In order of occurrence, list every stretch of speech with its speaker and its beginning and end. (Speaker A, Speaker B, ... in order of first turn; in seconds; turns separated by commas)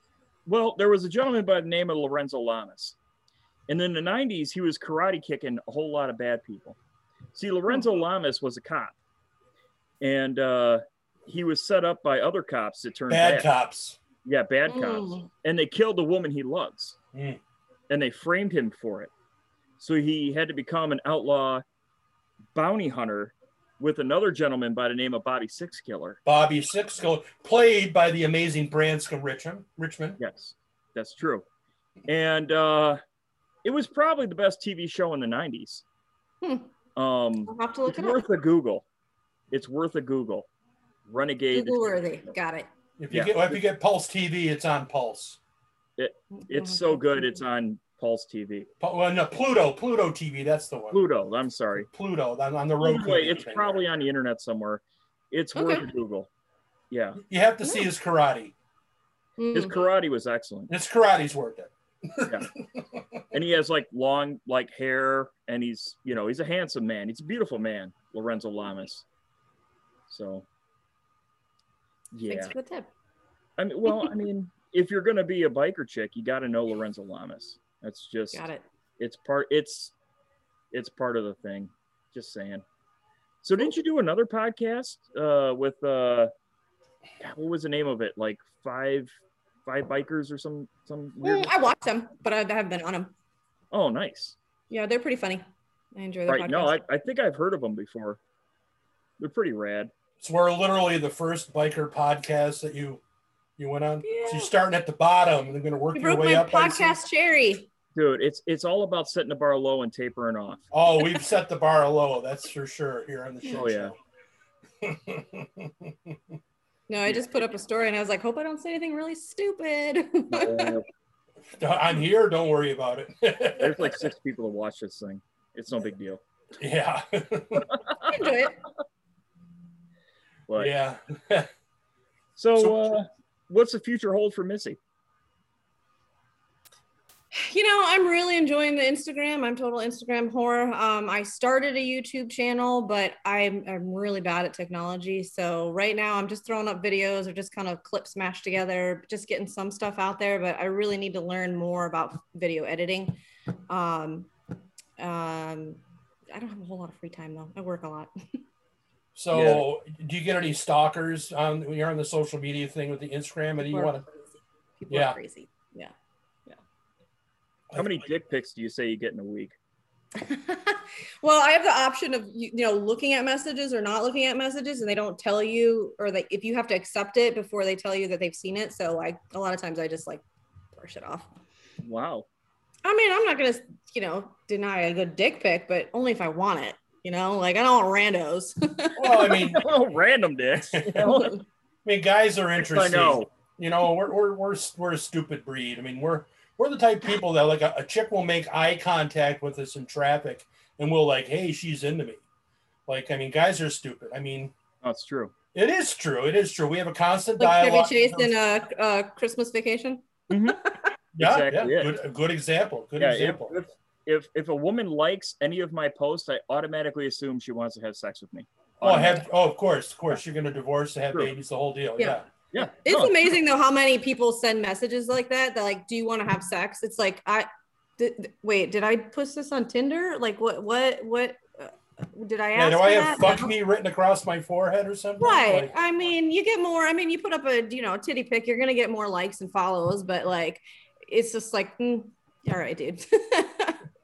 Speaker A: 0.5-3.0, Speaker A: 3.7-6.8, Speaker A: 7.3-8.9, Speaker A: 10.0-13.5, Speaker B: 13.1-14.0, Speaker A: 14.2-17.0, Speaker C: 14.7-15.2, Speaker B: 17.1-17.4, Speaker A: 17.9-19.1, Speaker A: 19.8-21.6, Speaker A: 22.5-26.2, Speaker B: 26.2-30.2, Speaker A: 30.2-31.4, Speaker A: 32.1-33.0, Speaker A: 33.6-35.8, Speaker C: 36.4-36.7, Speaker A: 37.0-38.8, Speaker C: 37.5-38.2, Speaker A: 39.5-40.5, Speaker A: 41.1-42.3, Speaker C: 41.5-42.7, Speaker B: 43.0-45.4, Speaker A: 43.1-43.6, Speaker A: 46.0-48.7, Speaker C: 46.3-47.4, Speaker B: 48.8-51.0, Speaker A: 50.9-51.9, Speaker B: 51.9-53.8, Speaker A: 52.8-56.3, Speaker C: 55.5-55.9, Speaker A: 56.9-57.2, Speaker B: 57.2-58.5, Speaker C: 59.4-59.8, Speaker A: 59.5-60.7, Speaker B: 60.7-63.2, Speaker A: 63.3-69.0, Speaker A: 70.1-70.4, Speaker A: 72.1-72.5, Speaker C: 72.3-72.9, Speaker A: 73.6-78.4, Speaker C: 78.3-78.6, Speaker A: 79.0-79.9, Speaker A: 80.7-82.6, Speaker A: 83.4-86.3, Speaker A: 87.2-89.1, Speaker A: 89.7-91.7, Speaker C: 91.2-93.1, Speaker A: 93.7-94.3, Speaker C: 94.7-95.4, Speaker C: 95.9-96.8, Speaker A: 96.3-98.2, Speaker A: 99.2-99.9, Speaker B: 100.2-103.0, Speaker B: 103.6-107.0, Speaker C: 104.0-104.5, Speaker C: 105.9-107.7, Speaker A: 107.9-110.6, Speaker B: 110.7-114.0, Speaker A: 113.5-113.9, Speaker B: 114.8-116.2, Speaker C: 116.9-120.8, Speaker A: 120.3-120.8, Speaker B: 121.6-124.0, Speaker A: 123.6-126.2, Speaker B: 126.6-127.7, Speaker A: 127.7-128.1, Speaker C: 128.1-128.6, Speaker A: 130.5-130.7, Speaker B: 130.6-131.5, Speaker A: 132.4-134.8, Speaker B: 132.6-133.0, Speaker C: 137.3-154.3, Speaker C: 155.0-155.8, Speaker C: 156.3-158.3, Speaker B: 159.1-164.0, Speaker A: 159.3-159.6, Speaker C: 163.6-165.9, Speaker B: 164.9-165.2, Speaker B: 167.7-168.0, Speaker A: 167.7-169.5, Speaker C: 170.2-181.3, Speaker A: 181.8-182.2, Speaker C: 182.8-189.3, Speaker B: 189.0-189.6, Speaker A: 189.2-191.3, Speaker B: 190.7-191.1, Speaker C: 191.0-191.4, Speaker B: 191.8-202.2, Speaker A: 192.6-193.3, Speaker B: 202.9-204.5, Speaker A: 204.8-205.3, Speaker B: 205.5-208.4, Speaker C: 207.4-210.9, Speaker A: 210.3-210.6, Speaker A: 211.1-211.9, Speaker B: 211.2-213.6, Speaker A: 213.0-219.2, Speaker B: 218.8-222.3, Speaker C: 222.0-233.5, Speaker A: 222.5-223.3, Speaker B: 232.5-235.7, Speaker C: 235.2-243.8